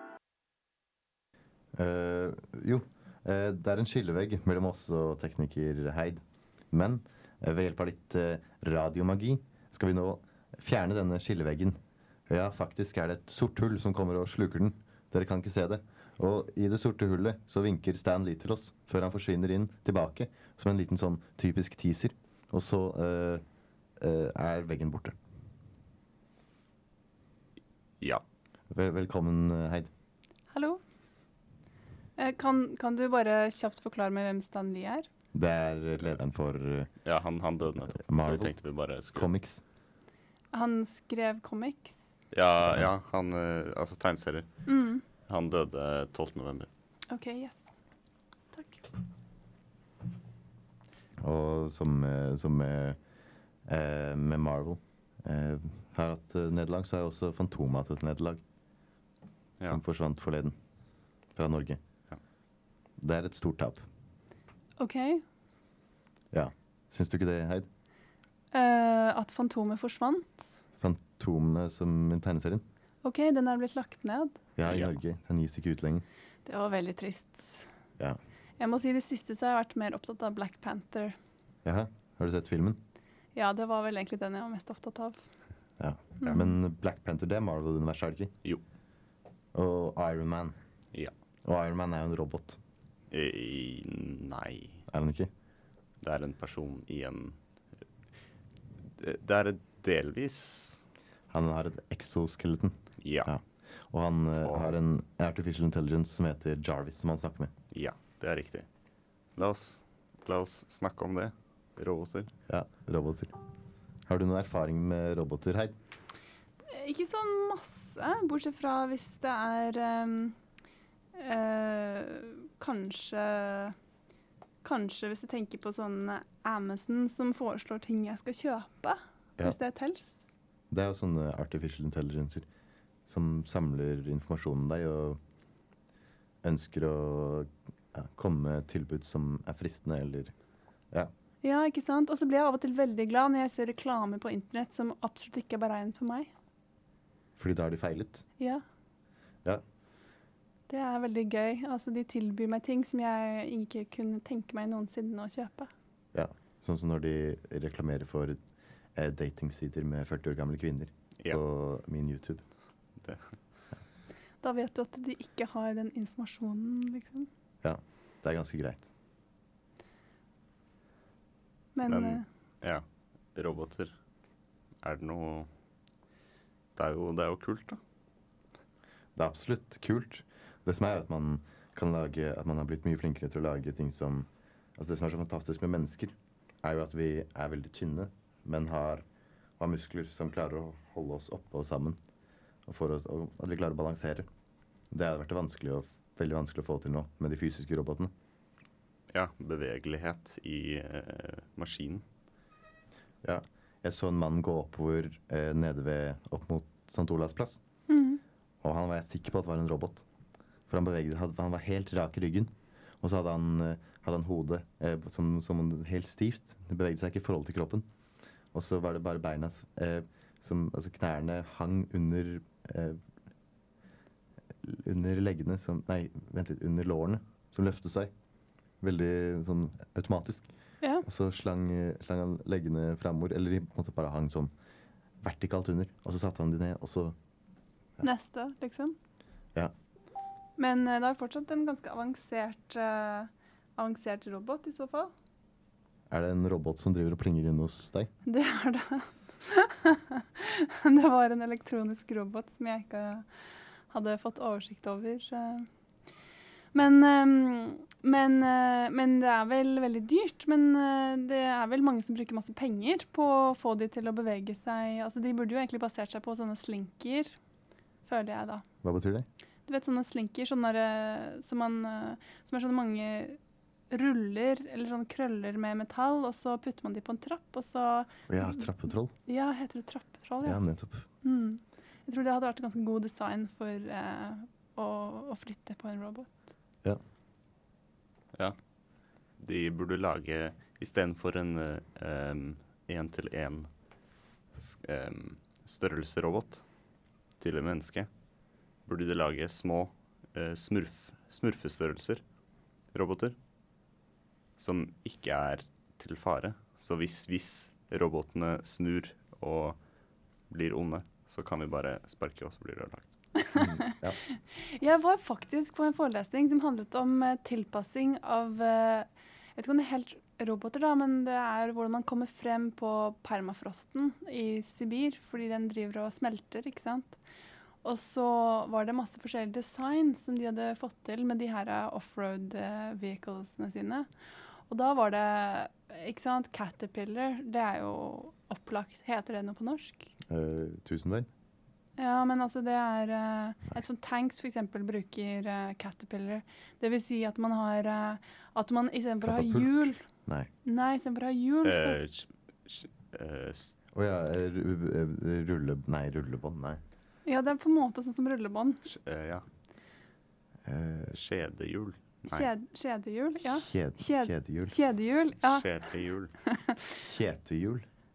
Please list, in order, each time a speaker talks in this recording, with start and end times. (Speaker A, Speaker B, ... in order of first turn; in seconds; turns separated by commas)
Speaker A: 1.7-23.4, Speaker A: 24.0-25.1, Speaker A: 28.7-29.9, Speaker B: 30.5-30.8, Speaker B: 32.2-35.1, Speaker A: 35.3-36.9, Speaker C: 37.0-39.3, Speaker A: 38.0-38.5, Speaker A: 39.1-39.6, Speaker B: 40.5-42.1, Speaker C: 42.3-44.7, Speaker B: 44.7-45.0, Speaker C: 45.2-46.7, Speaker B: 47.1-47.7, Speaker B: 48.5-48.8, Speaker A: 51.2-53.0, Speaker A: 53.7-58.4, Speaker A: 59.6-60.5, Speaker A: 61.3-61.8, Speaker A: 63.0-63.9, Speaker B: 64.8-65.2, Speaker A: 66.3-67.7, Speaker B: 68.5-70.5, Speaker A: 70.8-72.7, Speaker B: 73.0-74.4, Speaker A: 74.6-76.0, Speaker C: 74.6-74.9, Speaker B: 76.5-77.7, Speaker B: 78.6-81.2, Speaker A: 81.7-82.8, Speaker B: 83.3-85.3, Speaker A: 85.8-88.3, Speaker B: 86.2-86.5, Speaker A: 89.5-90.5, Speaker A: 91.4-92.6, Speaker C: 93.1-94.9, Speaker A: 94.9-95.3, Speaker C: 96.0-97.4, Speaker C: 99.0-100.8, Speaker A: 101.3-107.5, Speaker C: 103.0-103.3, Speaker C: 104.4-104.8, Speaker C: 107.7-108.7, Speaker C: 109.3-112.3, Speaker A: 112.5-113.3, Speaker A: 114.1-115.8, Speaker B: 116.7-120.4, Speaker B: 121.2-123.8, Speaker B: 124.6-130.3, Speaker A: 130.7-132.5, Speaker A: 133.1-135.2, Speaker A: 136.4-140.3, Speaker B: 141.4-146.3, Speaker A: 147.4-148.2, Speaker B: 150.7-155.7, Speaker A: 156.1-158.4, Speaker A: 158.9-162.4, Speaker C: 163.0-163.4, Speaker B: 164.4-167.3, Speaker A: 167.6-168.9, Speaker B: 171.8-172.3, Speaker C: 171.9-174.0, Speaker C: 174.8-175.5, Speaker C: 176.8-177.8, Speaker A: 179.2-189.1, Speaker A: 189.6-192.0, Speaker A: 192.7-194.3, Speaker A: 194.9-198.1, Speaker C: 199.1-202.1, Speaker A: 203.2-207.6, Speaker B: 207.9-208.2, Speaker A: 208.6-210.1, Speaker A: 210.7-217.9, Speaker A: 218.5-223.0, Speaker A: 224.6-228.1, Speaker A: 228.8-230.5, Speaker B: 230.8-231.1, Speaker A: 231.0-234.5, Speaker A: 235.2-237.2, Speaker B: 238.0-238.9, Speaker B: 240.6-245.1, Speaker A: 246.1-248.1, Speaker B: 248.2-255.7, Speaker B: 256.7-267.4, Speaker B: 268.0-268.6, Speaker A: 268.8-269.3, Speaker B: 269.7-273.4, Speaker B: 273.9-286.5, Speaker A: 278.3-279.1, Speaker A: 280.4-281.1, Speaker C: 288.3-303.4, Speaker C: 304.6-313.3, Speaker B: 313.4-327.2, Speaker A: 313.6-314.2, Speaker B: 327.8-340.1, Speaker A: 340.3-341.3, Speaker B: 342.0-350.1, Speaker A: 349.2-350.5, Speaker B: 350.6-352.0, Speaker C: 351.6-353.8, Speaker A: 353.9-356.8, Speaker B: 357.2-358.8, Speaker C: 358.9-359.5, Speaker A: 360.6-361.1, Speaker C: 361.1-362.5, Speaker B: 362.3-367.0, Speaker A: 363.5-364.8, Speaker C: 365.4-366.3, Speaker A: 367.1-367.9